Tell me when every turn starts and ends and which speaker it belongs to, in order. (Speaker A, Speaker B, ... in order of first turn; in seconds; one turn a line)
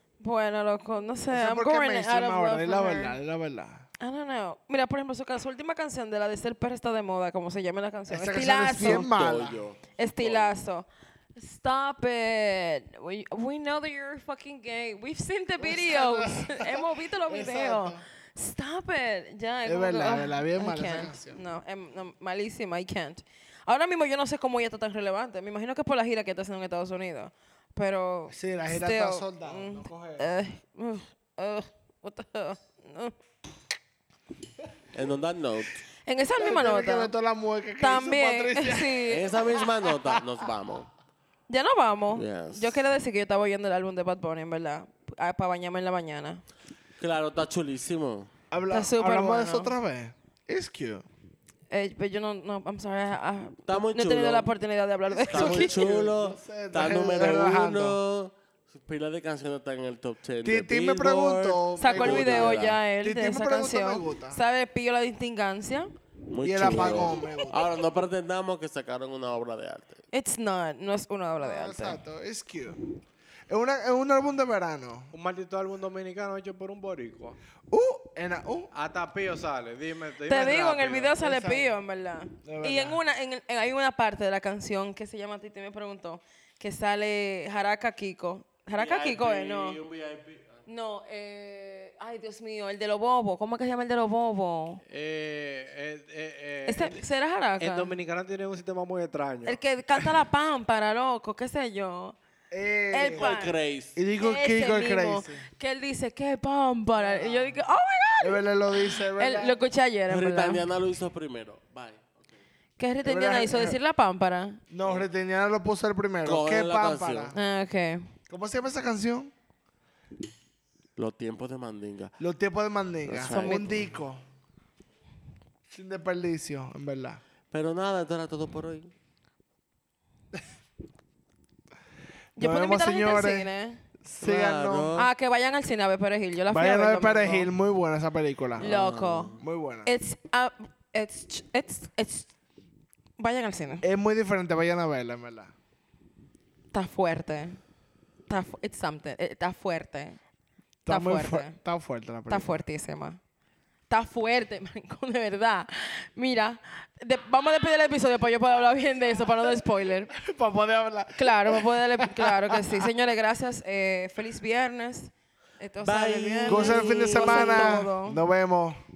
Speaker A: 0.2-3.1
Speaker B: 1.3-3.9
Speaker A: 4.0-9.1
Speaker B: 8.1-9.6
Speaker C: 8.8-10.6
Speaker A: 10.0-33.1
Speaker B: 15.6-18.0
Speaker B: 19.6-21.4
Speaker B: 28.3-30.3
Speaker C: 34.9-35.8
Speaker A: 36.0-37.1
Speaker B: 36.4-40.2
Speaker A: 37.8-39.2
Speaker C: 39.1-40.9
Speaker A: 41.5-46.4
Speaker C: 42.1-42.8
Speaker C: 47.0-48.3
Speaker B: 48.5-51.1
Speaker A: 48.7-49.7
Speaker A: 51.7-55.8
Speaker C: 53.7-54.5
Speaker B: 55.1-58.0
Speaker C: 55.3-62.8
Speaker B: 60.5-64.4
Speaker A: 61.8-65.9
Speaker C: 66.3-70.0
Speaker B: 66.4-67.6
Speaker A: 66.6-67.2
Speaker A: 70.1-72.0
Speaker B: 71.4-72.8
Speaker B: 73.5-75.1
Speaker D: 75.1-77.4
Speaker B: 77.7-78.7
Speaker D: 78.7-81.5
Speaker A: 80.3-89.8
Speaker B: 81.2-81.7
Speaker B: 82.5-83.0
Speaker C: 88.8-90.6
Speaker A: 90.7-94.8
Speaker D: 94.8-97.1
Speaker A: 96.7-97.9
Speaker D: 97.6-99.6
Speaker A: 99.5-102.2
Speaker B: 102.5-103.4
Speaker A: 102.9-103.6
Speaker C: 103.1-104.0
Speaker B: 104.0-105.5
Speaker A: 104.2-110.7
Speaker B: 108.2-109.6
Speaker C: 110.1-112.4
Speaker A: 112.8-114.6
Speaker B: 113.0-113.8
Speaker B: 114.7-117.4
Speaker C: 116.2-117.3
Speaker A: 117.3-118.1
Speaker B: 118.3-119.3
Speaker C: 121.0-122.2
Speaker B: 122.2-124.2
Speaker C: 123.1-123.9
Speaker A: 123.3-123.7
Speaker B: 125.7-127.2
Speaker C: 127.5-128.9
Speaker A: 132.4-133.8
Speaker B: 132.4-133.5
Speaker B: 134.0-134.9
Speaker C: 134.2-135.1
Speaker A: 134.9-137.5
Speaker B: 136.5-138.7
Speaker A: 138.6-142.3
Speaker C: 138.6-139.4
Speaker B: 139.4-139.9
Speaker A: 143.2-143.9
Speaker B: 143.8-145.5
Speaker A: 146.7-147.6
Speaker A: 148.3-150.2
Speaker B: 150.9-152.6
Speaker A: 150.9-151.6
Speaker A: 152.3-153.2
Speaker A: 153.9-160.1
Speaker B: 160.1-162.9
Speaker A: 161.2-168.2
Speaker C: 165.8-167.8
Speaker B: 166.5-168.8